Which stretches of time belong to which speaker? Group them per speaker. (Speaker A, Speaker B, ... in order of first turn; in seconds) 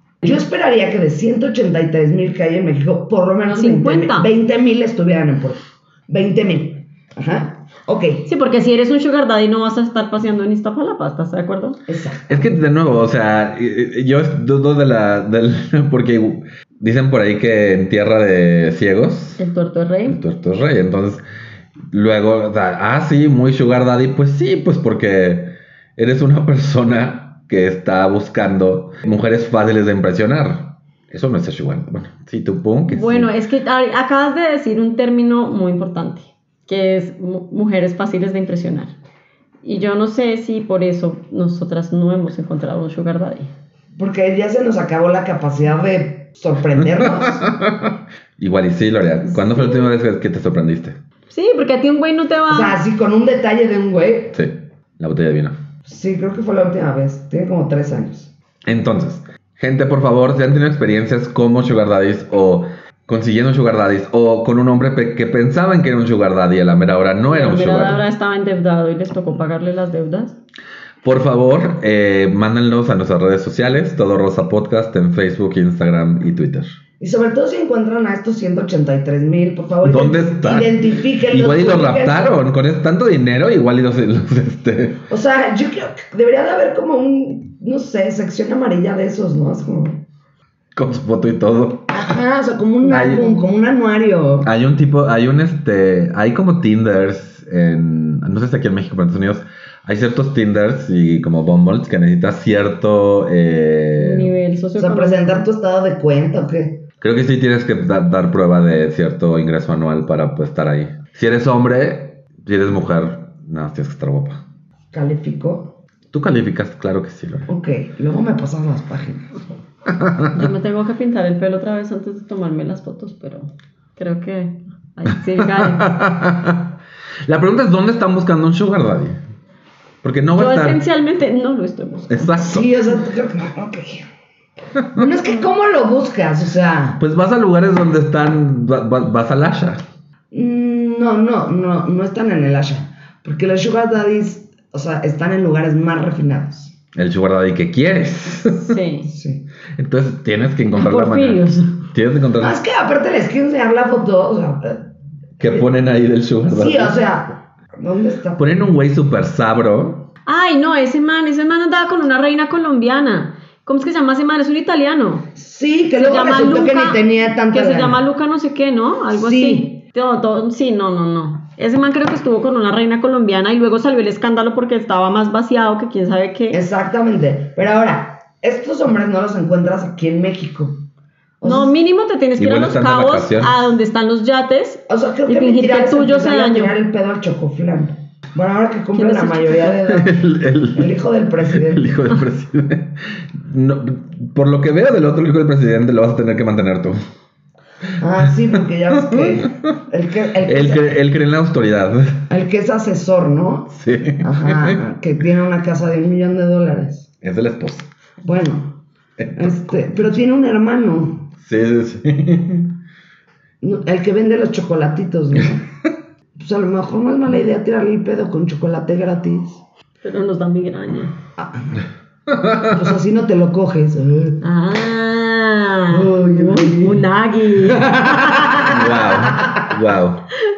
Speaker A: 0.2-8.3, 11.9-12.5, 44.0-47.5, 52.5-54.4, 55.8-58.3, 77.0-82.4, 85.1-90.0, 91.9-94.5, 104.8-106.8, 114.9-115.8, 117.5-119.4, 132.4-134.1, 134.9-137.0, 140.3-146.7, 149.1-149.4, 152.4-154.9, 155.4-155.6, 156.4-158.5, 165.3-168.0, 169.1-169.8, 176.5-180.8, 181.4-181.7, 184.9-190.2, 190.7-192.0, 198.0-201.0, 202.3-207.1, 208.2-208.8, 209.3-211.3, 213.6-215.7, 216.3-219.6, 221.4-221.7, 222.7-224.4, 225.9-227.0, 227.6-229.7
Speaker B: 3.5-4.3, 8.2-11.8, 19.4-20.2, 32.9-38.9, 39.6-43.5, 51.3-52.8, 67.2-70.4, 104.0-105.4, 120.3-126.0, 130.3-132.4, 148.5-149.1, 150.7-151.8, 160.2-165.3, 165.9-176.6, 181.4-186.7, 188.9-189.8, 220.0-221.1, 224.4-228.8
Speaker C: 12.3-19.4, 20.1-21.2, 21.9-33.3, 47.0-51.0, 54.3-55.5, 58.6-68.0, 71.0-76.7, 79.8-85.0, 90.7-92.0, 92.8-93.3, 94.4-104.3, 107.0-114.4, 116.1-117.5, 119.9-120.5, 125.3-126.7, 127.2-129.2, 130.0-130.8, 132.1-132.7, 137.0-139.8, 146.9-148.8, 149.8-152.6, 155.4-156.9, 158.4-160.1, 182.4-183.6, 189.8-190.9, 191.5-197.0, 199.0-199.6, 200.4-202.2, 203.7-204.8, 207.2-207.9, 209.2-209.5, 211.4-212.7, 222.3-222.7, 228.6-230.2